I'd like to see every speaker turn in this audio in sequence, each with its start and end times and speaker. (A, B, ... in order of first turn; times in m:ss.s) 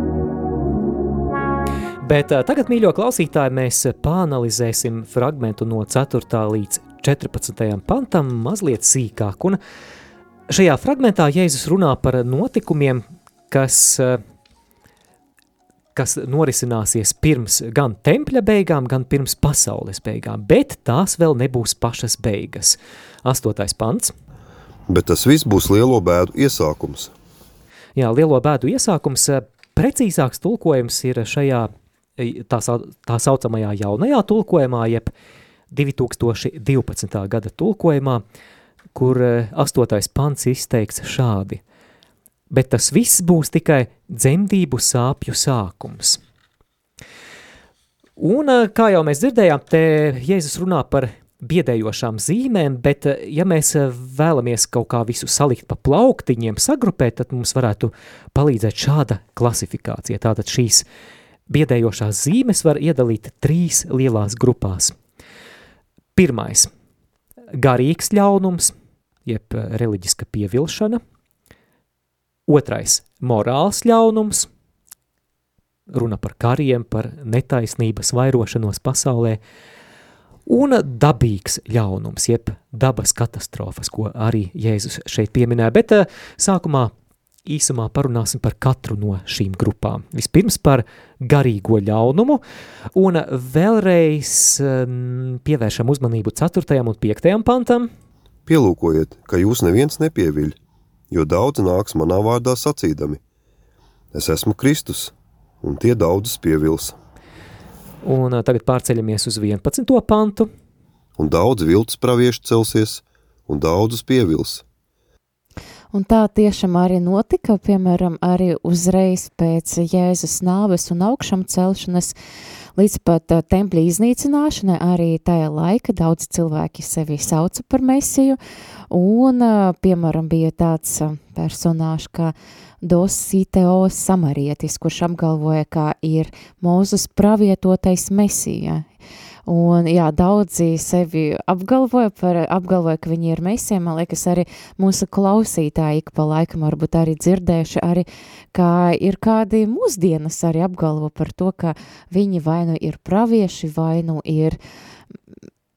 0:02.0-0:09.6 A
0:10.5-0:14.2 A
0:15.9-0:24.1 A
0:24.9-0:27.1 B
0:28.0-0:35.1 A
0:35.7-0:38.2 A
0:38.9-0:41.6 A
0:42.5-0:46.2 A
0:48.2-1:00.8 A
1:01.5-1:05.0 A
1:06.1-1:06.7 A
1:07.6-1:08.7 A
1:09.2-1:11.0 A
1:12.5-1:14.5 A
1:15.9-1:19.4 A
1:20.5-1:26.9 A
1:27.4-1:32.4 A
1:32.9-1:37.9 A
1:38.4-1:40.6 B
1:41.1-1:43.2 B
1:44.1-1:47.0 B
1:48.0-1:50.5 A
1:51.2-1:54.6 B
1:55.9-2:02.1 C
2:02.8-2:08.4 C
2:08.9-2:18.8 C
2:19.5-2:34.6 C